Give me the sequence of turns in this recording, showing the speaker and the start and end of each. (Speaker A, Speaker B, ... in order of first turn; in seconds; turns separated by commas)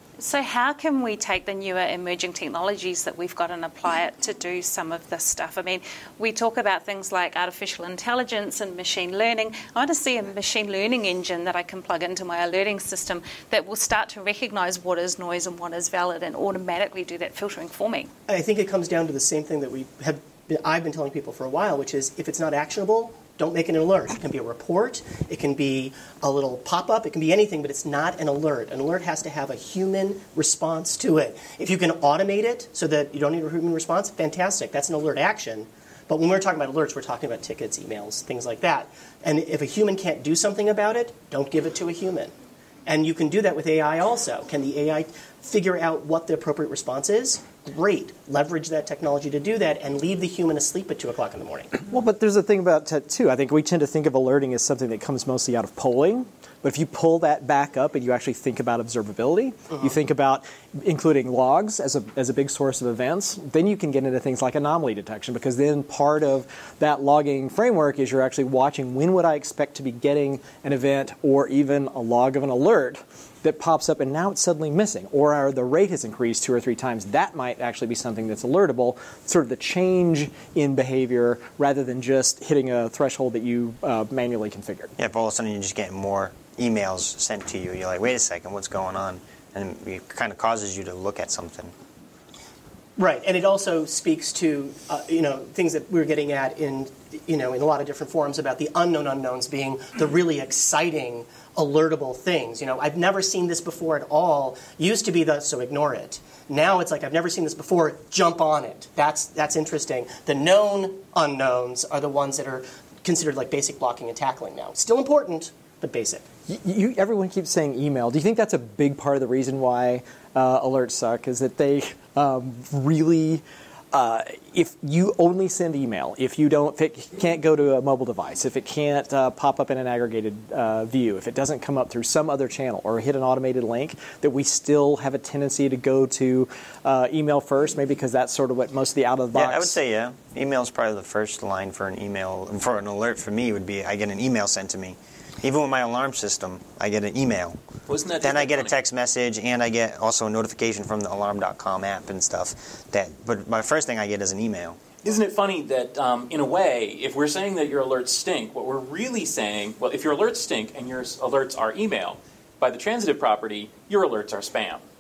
Speaker A: 0.2-18.1, Speaker B: 18.3-42.3, Speaker B: 42.9-51.8, Speaker C: 51.9-84.9, Speaker D: 85.0-91.7, Speaker B: 93.0-116.2, Speaker C: 116.5-139.8, Speaker D: 139.3-147.6, Speaker E: 147.9-148.8, Speaker D: 148.2-154.8, Speaker E: 155.0-164.8